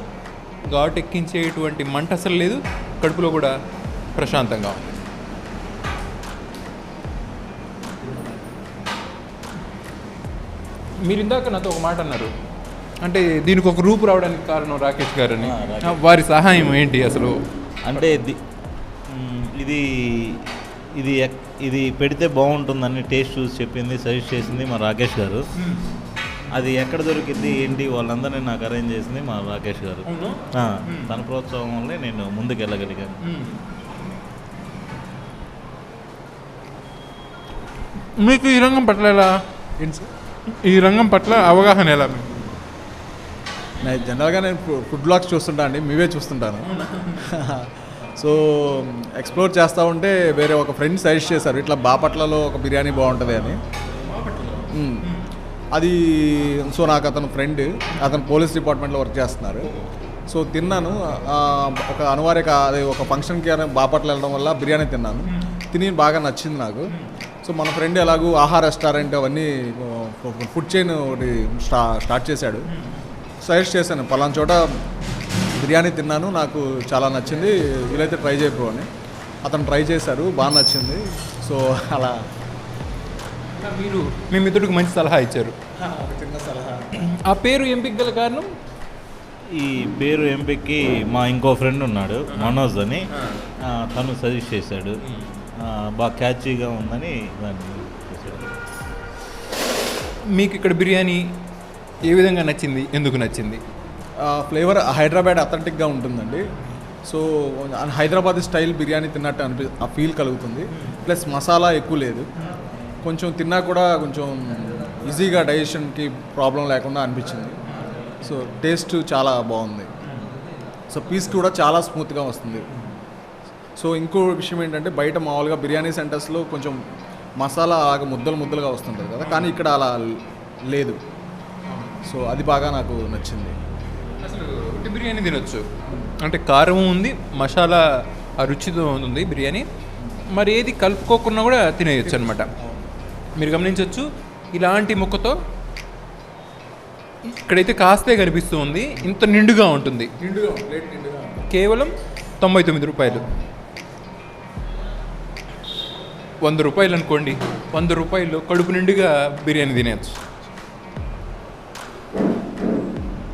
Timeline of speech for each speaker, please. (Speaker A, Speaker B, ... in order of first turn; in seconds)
Speaker A: 0.7-3.5, 4.1-4.9, 11.0-12.3, 13.0-17.4, 25.6-25.9, 30.0-31.1, 33.2-33.6, 38.2-39.3, 40.5-42.3, 46.6-47.4, 53.9-55.3, 65.3-65.6, 72.7-73.0, 83.5-85.5, 86.9-88.5, 92.3-92.6, 93.1-93.4, 95.0-95.3, 100.3-101.4, 102.0-103.6, 129.2-129.6, 131.7-132.0, 134.2-135.7, 136.2-137.8, 138.4-139.7, 140.3-142.5, 143.4-145.4, 147.2-150.1, 151.5-153.2, 156.4-160.2
Speaker B: 15.4-16.0, 17.8-18.4, 19.1-25.5, 26.5-33.2, 89.5-93.1, 93.6-95.0, 95.6-98.6
Speaker C: 39.8-40.1, 43.8-46.7, 47.2-53.6, 54.7-55.0, 55.7-59.7, 60.3-66.9, 67.4-72.7, 73.4-74.8, 75.5-78.9, 79.4-82.2, 85.8-87.0, 104.2-106.5, 107.0-112.3, 113.0-119.9, 120.9-122.7, 123.8-126.8, 127.4-131.0, 132.0-133.6, 142.1-142.9, 150.2-151.4